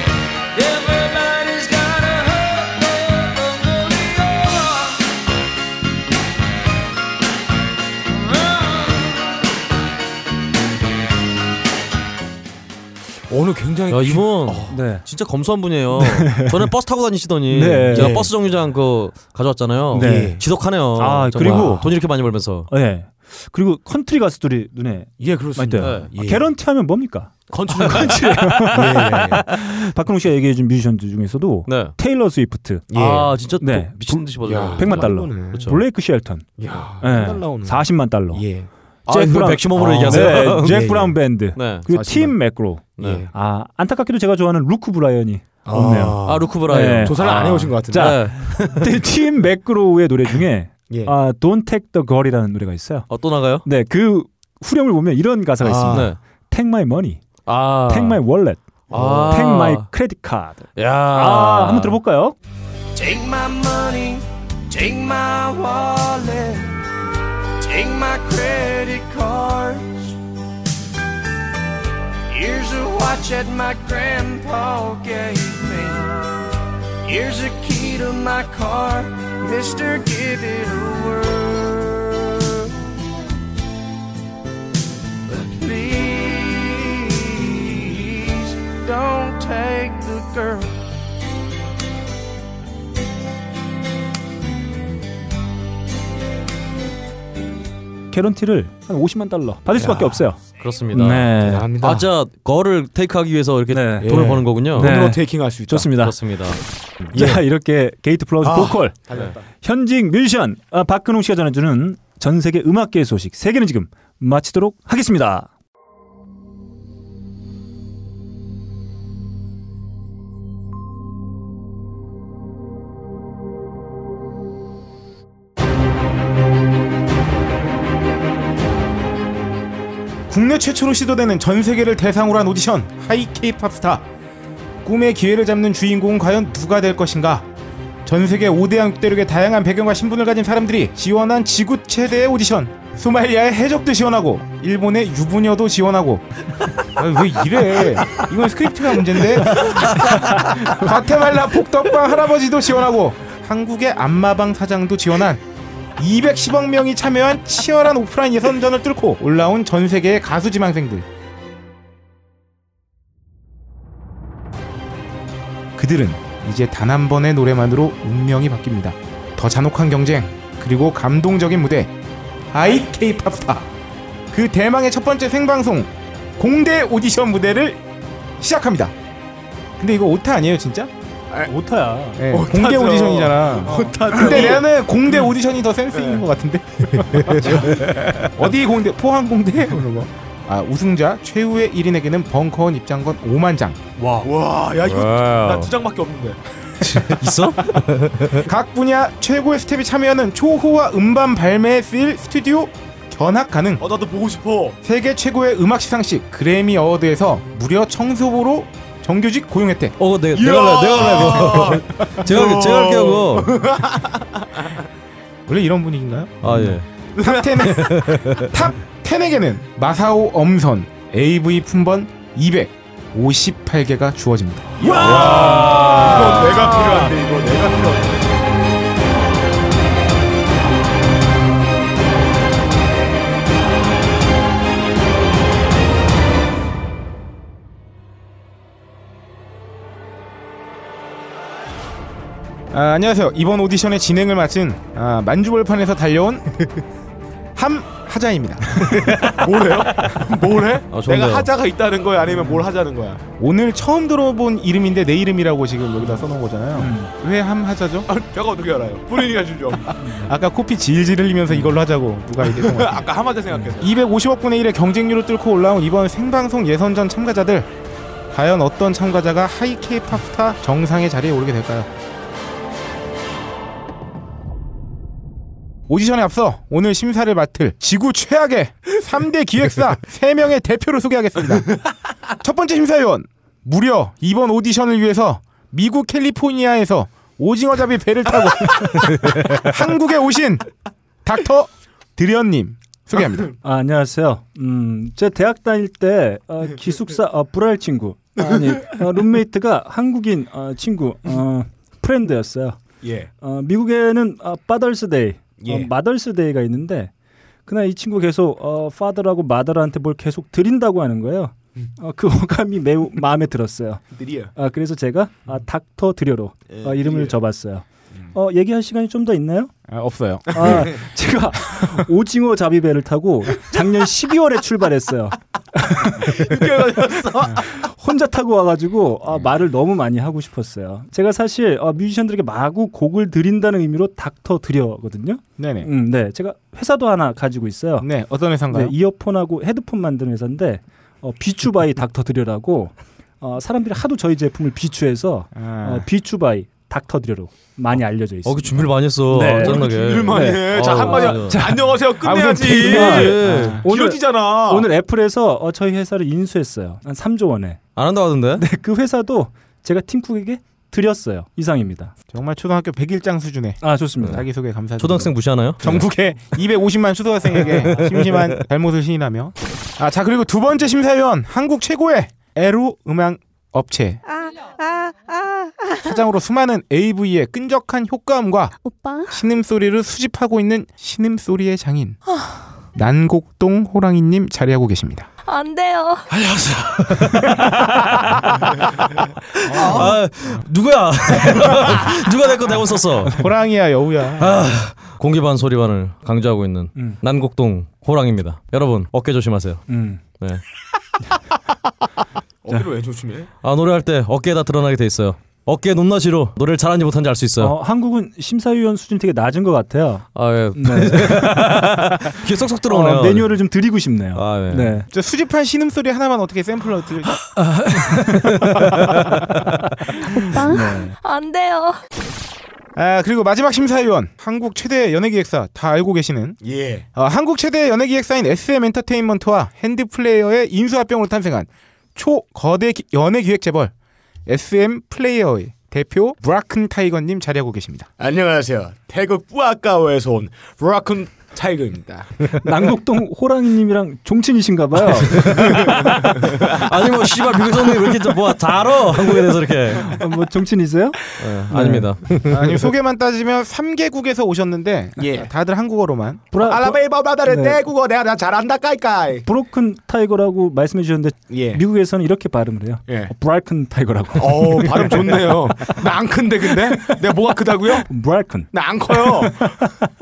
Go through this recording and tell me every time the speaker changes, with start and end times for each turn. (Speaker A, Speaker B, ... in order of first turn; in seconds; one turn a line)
Speaker A: 13.3-14.8
Speaker B: 13.9-22.7
Speaker C: 14.7-15.0
Speaker C: 16.0-16.6
Speaker C: 17.5-18.1
Speaker A: 17.9-18.3
Speaker C: 19.9-20.4
Speaker A: 19.9-20.4
Speaker C: 21.0-21.9
Speaker C: 22.7-32.8
Speaker A: 25.2-26.5
Speaker B: 25.8-26.1
Speaker A: 27.5-29.5
Speaker B: 31.7-31.9
Speaker A: 32.9-33.3
Speaker B: 32.9-35.8
Speaker C: 33.6-38.4
Speaker A: 34.4-35.7
Speaker A: 36.6-38.7
Speaker B: 39.1-40.8
Speaker C: 39.1-47.2
Speaker A: 39.7-41.2
Speaker B: 41.5-41.9
Speaker A: 41.9-42.4
Speaker B: 43.0-43.3
Speaker A: 43.0-43.3
Speaker A: 45.6-48.2
Speaker B: 46.2-48.9
Speaker C: 47.9-53.1
Speaker B: 53.1-53.6
Speaker C: 53.6-57.2
Speaker A: 55.6-56.1
Speaker B: 55.9-56.2
Speaker B: 57.5-58.2
Speaker C: 57.9-58.6
Speaker B: 58.9-59.9
Speaker A: 58.9-59.3
Speaker C: 59.3-62.3
Speaker B: 60.8-62.0
Speaker D: 62.9-66.7
Speaker D: 67.6-70.1
Speaker D: 72.3-76.2
Speaker D: 77.0-82.7
Speaker D: 85.3-90.8
Speaker C: 98.1-100.4
Speaker A: 99.7-100.2
Speaker B: 100.6-104.9
Speaker C: 100.9-101.7
Speaker A: 101.4-102.1
Speaker C: 103.7-106.2
Speaker A: 104.0-105.9
Speaker B: 106.0-106.6
Speaker C: 107.0-109.0
Speaker A: 107.1-107.4
Speaker A: 108.4-109.4
Speaker C: 109.5-115.5
Speaker E: 130.3-134.0
Speaker E: 134.8-137.4
Speaker E: 138.0-146.2
Speaker E: 147.0-149.7
Speaker C: 150.1-150.8
Speaker E: 150.7-155.4
Speaker E: 156.0-161.0
Speaker E: 165.8-171.9
Speaker E: 172.5-173.7
Speaker E: 174.3-177.8
Speaker E: 178.4-178.9
Speaker E: 179.8-180.9
Speaker C: 181.5-182.2
Speaker E: 182.2-187.1
Speaker A: 182.3-184.8
Speaker C: 183.6-184.6
Speaker A: 185.9-186.2
Speaker A: 187.0-188.1
Speaker B: 187.4-187.8
Speaker E: 188.3-193.8
Speaker C: 194.0-194.3
Speaker A: 194.2-197.1
Speaker B: 194.8-195.7
Speaker B: 196.8-198.5
Speaker E: 198.4-203.8
Speaker A: 203.8-204.8
Speaker E: 204.8-209.9
Speaker B: 210.0-213.5
Speaker A: 210.3-214.7
Speaker E: 215.5-216.4
Speaker B: 216.4-216.9
Speaker C: 216.5-216.8
Speaker A: 217.2-218.4
Speaker E: 217.2-224.7
Speaker B: 217.6-218.5
Speaker A: 224.8-228.4
Speaker C: 224.8-227.1
Speaker B: 225.0-226.4
Speaker E: 242.7-246.5
Speaker E: 247.6-248.8
Speaker A: 249.2-253.2
Speaker B: 250.9-251.5
Speaker E: 253.4-258.1
Speaker C: 256.7-257.1
Speaker A: 258.1-260.0
Speaker C: 260.0-260.3
Speaker E: 260.2-263.1
Speaker A: 262.4-263.9
Speaker E: 263.8-267.7
Speaker E: 268.3-271.9
Speaker E: 275.9-281.7
Speaker E: 282.4-290.6
Speaker E: 291.2-293.5
Speaker C: 293.6-302.8
Speaker A: 303.0-303.3
Speaker C: 303.4-307.1
Speaker A: 305.6-305.9
Speaker C: 307.7-319.7
Speaker A: 314.1-314.5
Speaker A: 316.7-317.4
Speaker E: 319.9-320.6
Speaker C: 320.5-326.6
Speaker A: 320.5-320.9
Speaker A: 326.2-327.6
Speaker C: 327.4-338.1
Speaker E: 335.6-335.9
Speaker E: 338.0-338.9
Speaker C: 338.7-352.0
Speaker E: 345.5-346.0
Speaker B: 348.4-351.6
Speaker A: 349.4-354.9
Speaker E: 352.2-352.8
Speaker C: 352.5-357.8
Speaker B: 352.7-353.8
Speaker B: 357.9-358.6
Speaker C: 358.6-362.1
Speaker E: 362.3-374.2
Speaker C: 363.8-364.4
Speaker B: 365.0-366.1
Speaker B: 367.6-368.6
Speaker F: 374.3-376.0
Speaker E: 376.0-378.8
Speaker F: 378.8-379.4
Speaker E: 379.3-382.2
Speaker E: 382.9-385.3
Speaker F: 385.5-386.2
Speaker B: 386.3-388.8
Speaker B: 389.6-393.4
Speaker C: 389.7-390.1
Speaker E: 393.3-394.6
Speaker B: 394.4-399.8
Speaker C: 399.9-400.2
Speaker A: 402.6-403.5
Speaker B: 403.6-407.7
Speaker C: 407.6-412.1
Speaker B: 410.3-413.6
Speaker C: 412.9-415.1
Speaker B: 414.3-415.0
Speaker E: 415.1-417.3
Speaker B: 417.4-419.7
Speaker C: 418.1-418.5
Speaker F: 420.3-421.6
Speaker C: 420.6-421.1
Speaker E: 422.9-426.6
Speaker A: 426.6-427.1
Speaker E: 427.1-433.9
Speaker E: 434.5-438.1
Speaker A: 438.2-442.5
Speaker C: 442.6-446.3
Speaker A: 445.3-446.6
Speaker B: 445.4-450.1
Speaker C: 450.0-452.3
Speaker B: 451.4-452.8
Speaker E: 452.5-456.5
Speaker A: 455.2-455.5
Speaker C: 456.5-457.8
Speaker A: 456.5-459.4
Speaker C: 459.4-465.9
Speaker A: 461.5-461.8
Speaker A: 464.4-468.1
Speaker C: 468.0-469.9
Speaker A: 468.7-469.7